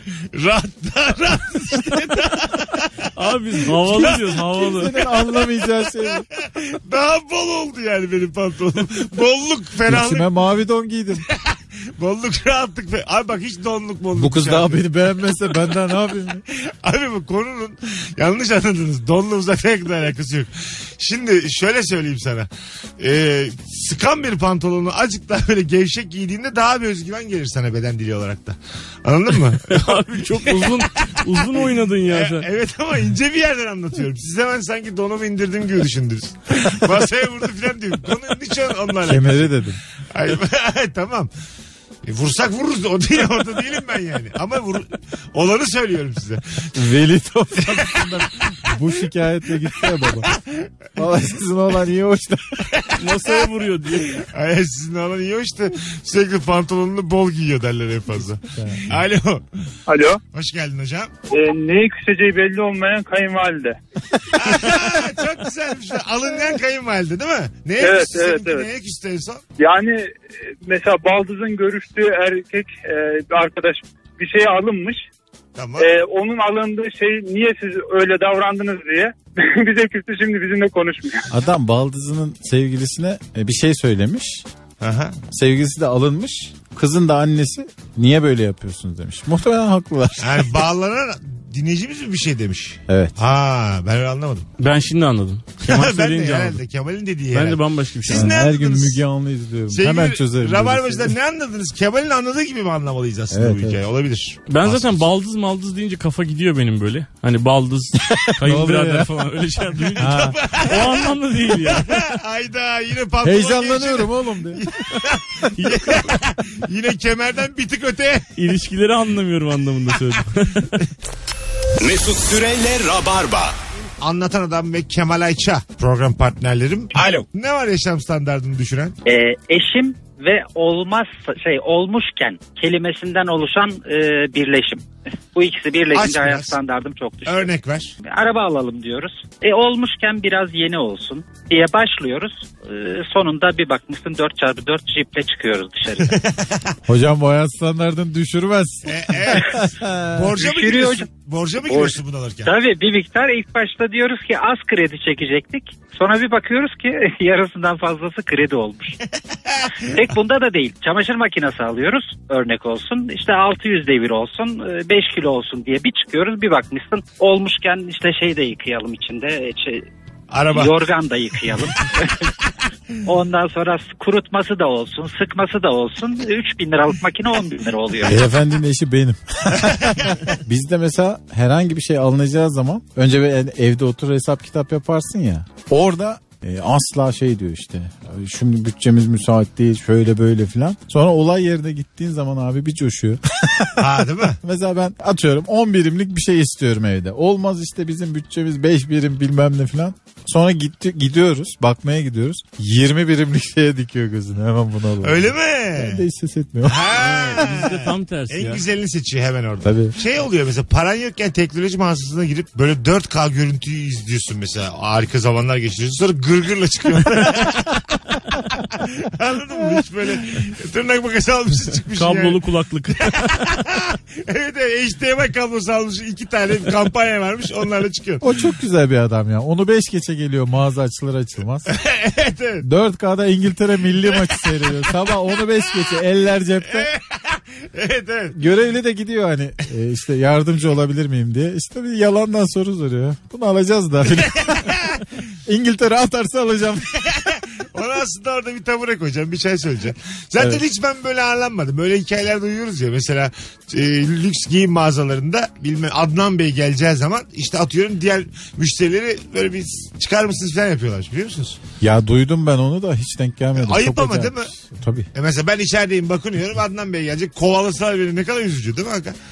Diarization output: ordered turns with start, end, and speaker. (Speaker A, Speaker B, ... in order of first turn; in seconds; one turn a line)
Speaker A: 0.3-3.1
Speaker B: 3.2-4.9
Speaker A: 3.7-5.5
Speaker C: 3.8-6.3
Speaker A: 6.2-10.3
Speaker C: 9.9-11.2
Speaker A: 11.2-14.8
Speaker C: 14.2-16.4
Speaker A: 16.5-22.5
Speaker A: 23.0-39.5
Speaker B: 29.7-32.5
Speaker C: 39.0-39.8
Speaker A: 40.1-41.3
Speaker A: 42.0-46.7
Speaker C: 46.8-50.3
Speaker A: 47.6-48.7
Speaker A: 50.2-50.7
Speaker C: 51.0-52.7
Speaker A: 52.7-53.5
Speaker B: 53.0-54.2
Speaker A: 54.0-59.7
Speaker C: 58.5-58.9
Speaker D: 59.9-60.2
Speaker A: 60.3-61.1
Speaker D: 61.3-63.8
Speaker A: 64.3-69.4
Speaker D: 67.8-68.7
Speaker D: 69.6-75.0
Speaker A: 75.6-75.9
Speaker D: 75.8-81.3
Speaker C: 81.3-84.5
Speaker A: 84.8-85.2
Speaker C: 85.3-90.6
Speaker A: 90.2-94.5
Speaker C: 92.9-93.1
Speaker B: 94.6-96.6
Speaker A: 95.7-99.0
Speaker B: 97.3-98.3
Speaker C: 98.1-101.2
Speaker A: 99.7-105.0
Speaker C: 103.3-103.8
Speaker B: 104.5-112.0
Speaker C: 108.1-109.3
Speaker C: 110.0-110.4
Speaker A: 110.0-118.3
Speaker C: 113.2-114.7
Speaker B: 115.5-116.2
Speaker B: 118.4-120.7
Speaker E: 121.8-123.6
Speaker A: 124.0-129.0
Speaker E: 127.0-127.2
Speaker F: 129.1-137.5
Speaker A: 135.9-136.6
Speaker A: 137.2-137.9
Speaker F: 138.0-146.2
Speaker A: 146.1-146.7
Speaker C: 146.9-150.4
Speaker A: 148.9-152.5
Speaker F: 150.4-151.1
Speaker F: 151.6-159.0
Speaker F: 159.8-169.9
Speaker A: 170.3-170.7
Speaker F: 170.5-172.3
Speaker F: 173.1-178.2
Speaker C: 178.0-206.8
Speaker A: 179.6-180.2
Speaker A: 193.8-194.4
Speaker A: 205.0-206.1
Speaker A: 206.6-222.4
Speaker B: 206.9-208.6
Speaker C: 209.6-210.0
Speaker B: 221.9-223.4
Speaker A: 223.1-228.3
Speaker C: 228.2-231.7
Speaker A: 231.7-232.7
Speaker C: 232.6-236.9
Speaker A: 234.1-234.9
Speaker A: 236.7-238.4
Speaker C: 238.3-244.8
Speaker A: 244.6-245.1
Speaker C: 245.5-246.9
Speaker A: 247.1-261.6
Speaker C: 250.4-250.6
Speaker C: 261.8-265.1
Speaker A: 263.6-264.5
Speaker A: 265.1-269.2